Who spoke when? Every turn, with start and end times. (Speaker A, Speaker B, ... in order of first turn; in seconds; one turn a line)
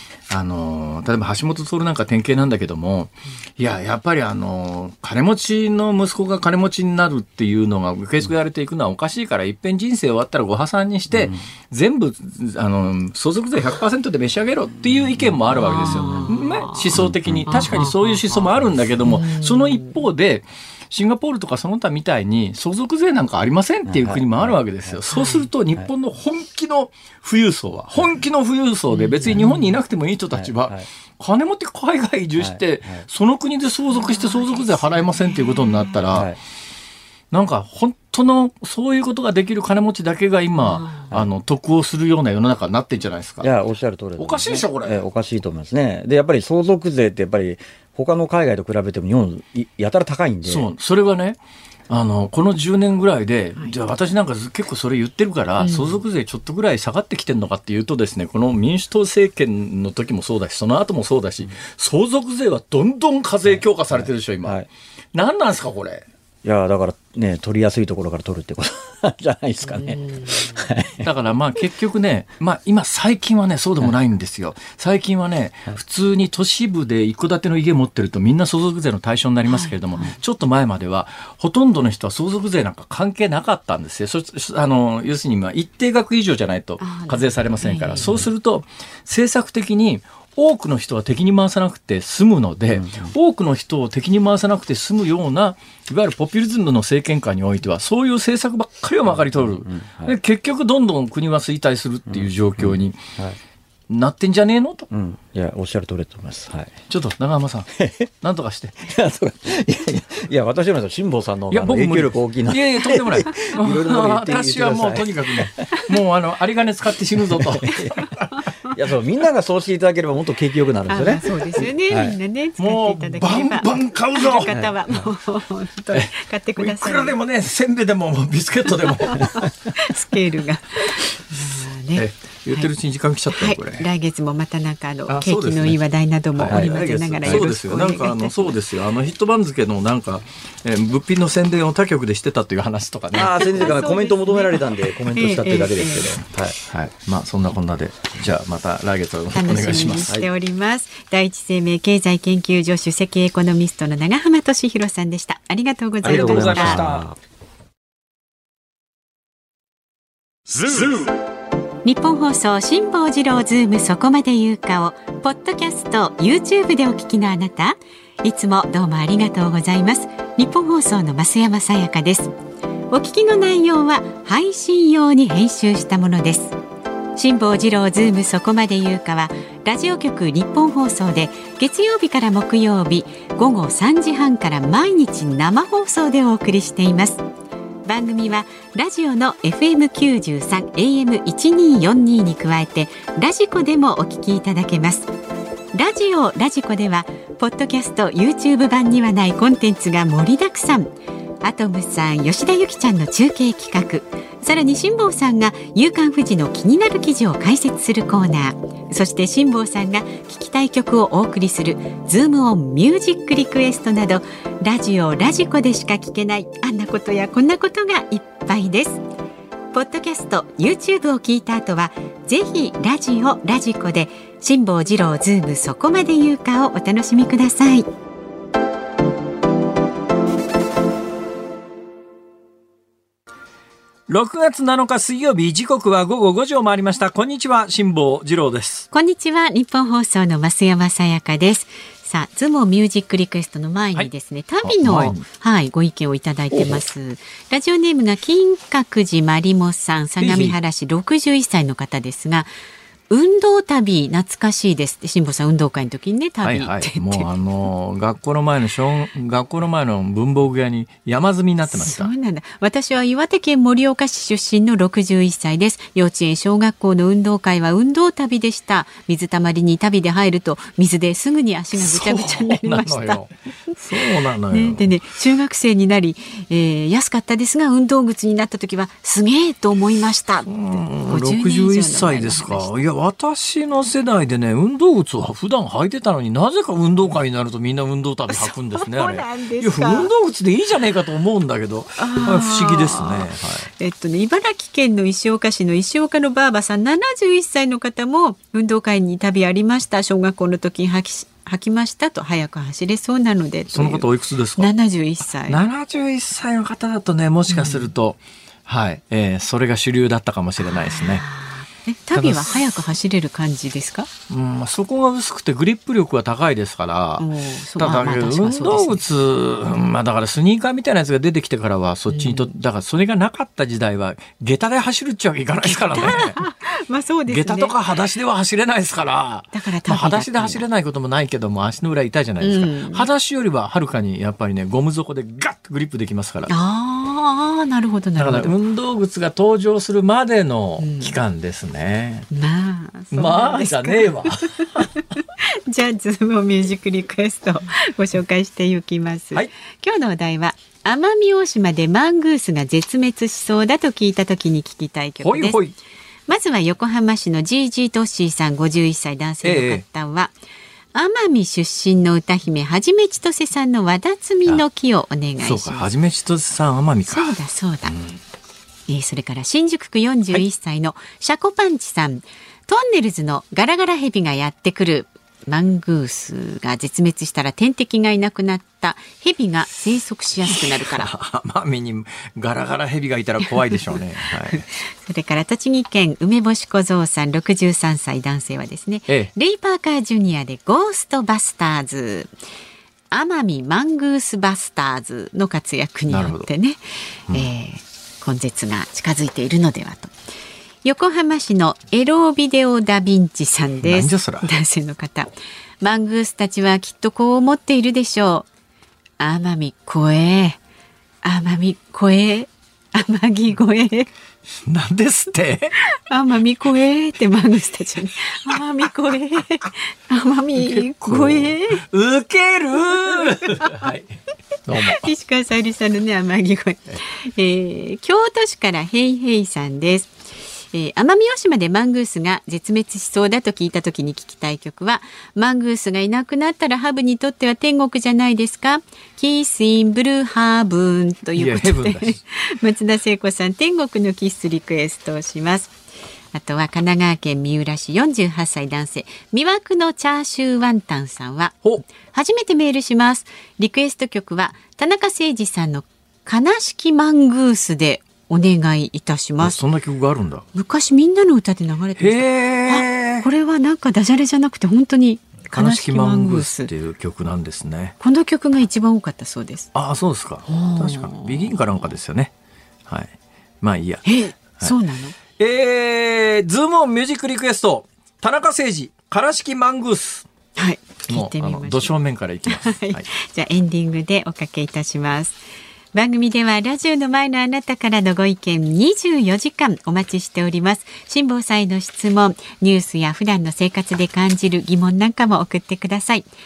Speaker A: 0.3-36.3
Speaker B: 11.1-11.4
Speaker C: 15.6-16.9
Speaker B: 15.6-16.3
Speaker B: 16.9-17.7
Speaker C: 17.5-18.2
Speaker C: 19.1-19.9
Speaker B: 23.9-25.0
Speaker C: 25.1-25.5
Speaker C: 28.9-29.7
Speaker B: 29.2-29.6
Speaker B: 30.3-30.9
Speaker B: 32.4-33.0
Speaker C: 33.9-36.0
Speaker B: 36.1-36.4
Speaker A: 37.3-43.5
Speaker C: 40.6-41.1
Speaker B: 43.4-50.7
Speaker A: 44.2-45.0
Speaker A: 50.4-64.6
Speaker C: 55.6-55.9
Speaker B: 63.5-64.7
Speaker A: 65.1-66.0
Speaker B: 66.4-71.1
Speaker A: 71.0-103.0
Speaker C: 79.5-80.1
Speaker C: 86.8-88.2
Speaker B: 88.0-88.2
Speaker B: 92.7-93.1
Speaker B: 99.3-100.2
Speaker B: 102.1-103.4
Speaker A: 103.9-104.9
Speaker B: 104.9-106.8
Speaker A: 106.9-107.7
Speaker B: 107.8-108.0
Speaker A: 108.2-108.9
Speaker B: 108.8-115.9
Speaker A: 111.5-118.2
Speaker B: 117.2-118.1
Speaker C: 117.7-118.4
Speaker B: 118.7-122.2
Speaker C: 120.9-127.2
Speaker A: 122.6-124.5
Speaker B: 124.5-124.8
Speaker A: 125.9-129.4
Speaker C: 129.1-132.7
Speaker A: 131.9-133.8
Speaker C: 133.3-138.6
Speaker A: 135.1-135.8
Speaker A: 136.3-143.8
Speaker B: 136.5-137.6
Speaker B: 143.1-146.6
Speaker C: 143.2-146.2
Speaker A: 146.7-150.2
Speaker C: 149.3-156.8
Speaker A: 156.0-157.1
Speaker B: 156.0-157.2
Speaker C: 161.8-172.3
Speaker C: 172.9-176.6
Speaker C: 177.2-187.2
Speaker C: 187.8-195.1
Speaker C: 195.7-200.9
Speaker C: 201.4-219.0
Speaker C: 219.7-227.9
Speaker A: 234.1-238.9
Speaker C: 238.9-252.5
Speaker A: 244.6-245.2
Speaker B: 244.9-245.2
Speaker A: 250.2-250.6
Speaker C: 253.1-257.3
Speaker A: 256.4-262.1
Speaker C: 261.6-273.2
Speaker A: 271.7-274.9
Speaker C: 274.5-282.8
Speaker A: 280.5-293.7
Speaker C: 288.3-290.1
Speaker C: 292.0-305.6
Speaker A: 303.7-304.7
Speaker A: 305.5-311.2
Speaker C: 307.5-307.9
Speaker C: 310.6-314.1
Speaker A: 312.1-312.7
Speaker A: 314.3-317.2
Speaker C: 317.2-319.0
Speaker A: 317.8-326.4
Speaker C: 322.1-322.5
Speaker C: 325.6-327.7
Speaker A: 327.3-336.5
Speaker C: 329.5-330.6
Speaker C: 332.4-333.1
Speaker C: 336.5-338.5
Speaker A: 338.2-342.3
Speaker C: 340.8-341.1
Speaker C: 342.3-355.6
Speaker A: 343.1-344.9
Speaker A: 355.2-355.8
Speaker C: 356.3-360.3
Speaker A: 359.4-359.8
Speaker C: 360.9-365.9
Speaker A: 365.4-367.4
Speaker C: 367.1-368.0
Speaker A: 367.9-368.2
Speaker C: 368.9-381.1
Speaker A: 380.4-384.6
Speaker C: 384.5-392.3
Speaker C: 393.1-400.1
Speaker A: 396.1-396.5
Speaker C: 400.8-408.5
Speaker A: 403.8-404.5
Speaker C: 409.2-410.6
Speaker C: 411.2-414.1
Speaker A: 414.6-415.7
Speaker C: 416.1-421.8
Speaker A: 420.6-425.1
Speaker C: 423.4-423.8
Speaker C: 424.8-430.1
Speaker C: 430.7-445.7
Speaker A: 441.4-442.2
Speaker C: 446.3-459.6
Speaker A: 459.4-460.4
Speaker C: 460.5-466.7
Speaker A: 462.0-463.3
Speaker A: 465.5-468.0
Speaker C: 468.0-469.7
Speaker A: 469.7-472.3
Speaker C: 470.4-471.6
Speaker A: 472.9-474.1
Speaker C: 474.0-475.1
Speaker A: 475.4-480.3
Speaker C: 480.6-485.4
Speaker A: 481.1-483.1
Speaker C: 485.9-496.2